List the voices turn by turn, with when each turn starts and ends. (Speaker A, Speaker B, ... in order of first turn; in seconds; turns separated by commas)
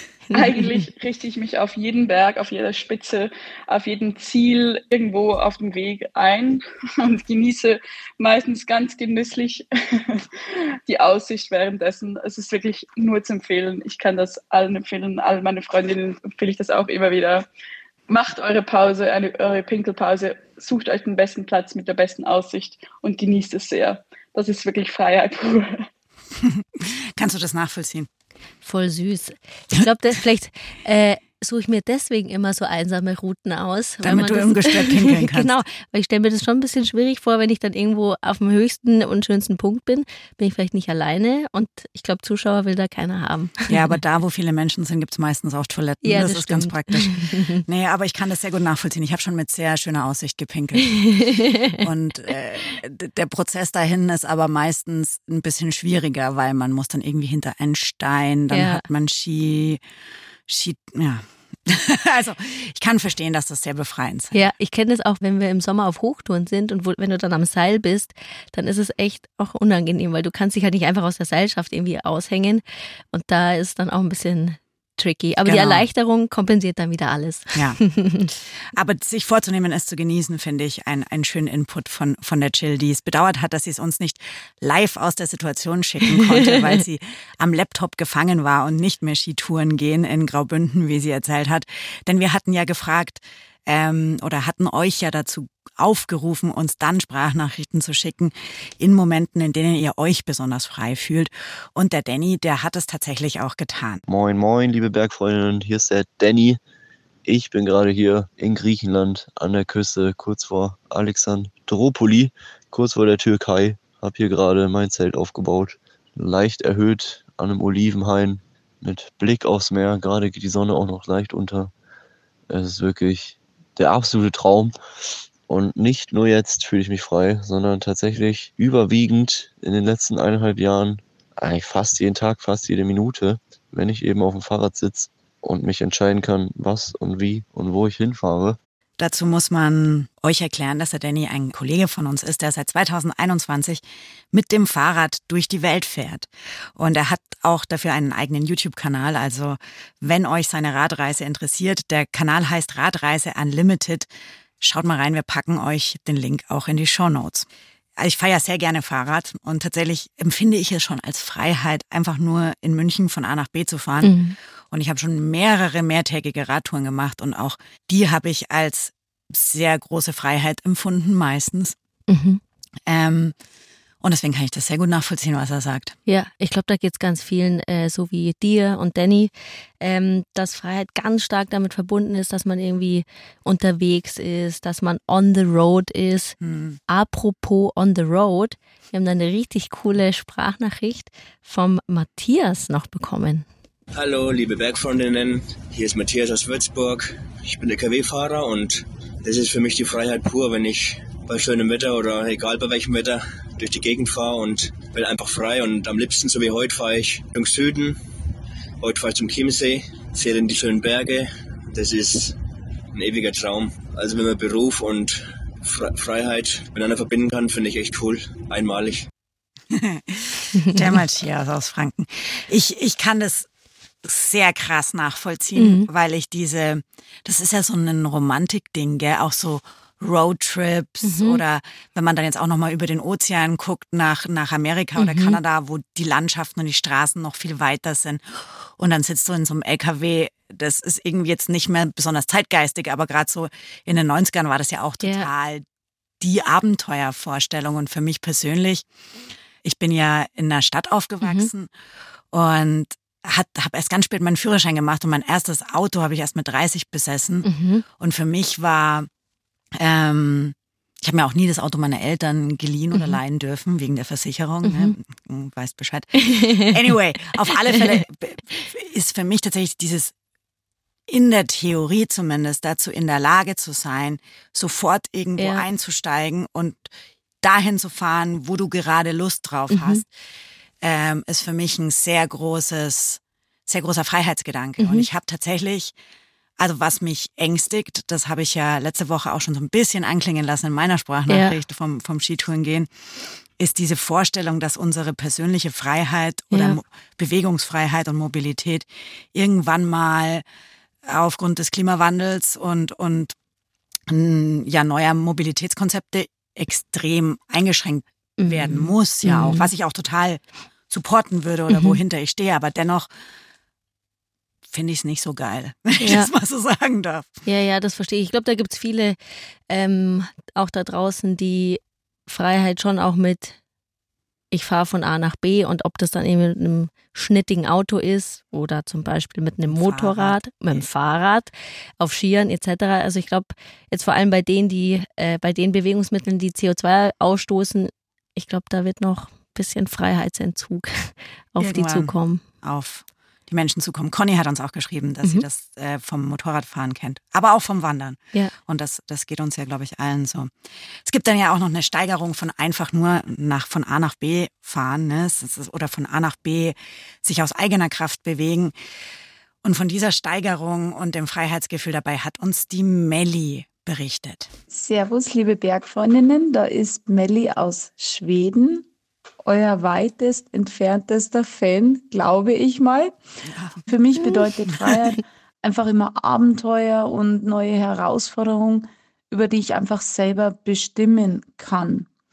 Speaker A: 0.3-0.7, Speaker B: 0.3-10.3, Speaker B: 10.8-17.4, Speaker B: 18.1-25.9, Speaker C: 26.4-28.1, Speaker A: 28.6-43.9, Speaker C: 34.0-35.5, Speaker C: 43.7-51.1, Speaker A: 46.0-47.6, Speaker A: 51.0-51.8, Speaker C: 51.8-59.8, Speaker A: 58.5-58.8, Speaker C: 60.5-64.4, Speaker A: 64.3-78.3, Speaker C: 75.5-75.8, Speaker C: 77.5-77.8, Speaker C: 78.7-104.0, Speaker A: 86.1-86.6, Speaker D: 104.1-106.6, Speaker D: 107.2-121.7, Speaker D: 122.5-124.8, Speaker D: 125.5-138.6, Speaker C: 139.0-143.8, Speaker C: 144.3-154.1, Speaker C: 154.6-164.2, Speaker A: 164.0-164.3, Speaker C: 164.7-171.7, Speaker A: 172.1-172.4, Speaker C: 172.9-173.3, Speaker C: 174.0-175.9, Speaker A: 176.1-186.3, Speaker C: 186.4-186.8, Speaker A: 186.9-193.4, Speaker E: 193.9-208.0, Speaker E: 208.8-212.3, Speaker E: 212.9-219.0, Speaker C: 219.7-223.5, Speaker C: 224.0-245.6, Speaker A: 225.6-225.9, Speaker A: 231.0-231.4, Speaker A: 235.0-235.4, Speaker A: 245.0-245.3, Speaker C: 246.2-248.8, Speaker C: 249.6-251.7, Speaker A: 251.2-251.5, Speaker C: 252.3-257.5, Speaker A: 257.4-257.8, Speaker C: 258.0-259.1, Speaker C: 259.8-270.1, Speaker A: 264.6-264.9, Speaker A: 266.2-266.7, Speaker C: 271.1-276.9, Speaker A: 275.4-275.6, Speaker C: 277.4-280.1, Speaker A: 279.7-280.0, Speaker C: 280.8-285.9, Speaker A: 284.8-285.1, Speaker C: 286.6-292.9, Speaker A: 291.3-291.5, Speaker C: 293.6-300.4, Speaker A: 296.5-296.8, Speaker C: 301.0-303.3, Speaker C: 304.1-313.1, Speaker A: 308.4-309.7, Speaker A: 311.7-312.0, Speaker C: 314.7-317.3, Speaker A: 316.0-316.3, Speaker A: 317.4-319.2, Speaker A: 319.7-323.6, Speaker A: 324.5-342.4, Speaker C: 329.7-330.9, Speaker C: 341.6-350.5, Speaker C: 351.0-358.7, Speaker C: 359.6-364.5, Speaker F: 364.7-368.9, Speaker F: 369.4-373.1, Speaker C: 373.5-373.9, Speaker F: 373.9-382.1, Speaker A: 374.2-374.5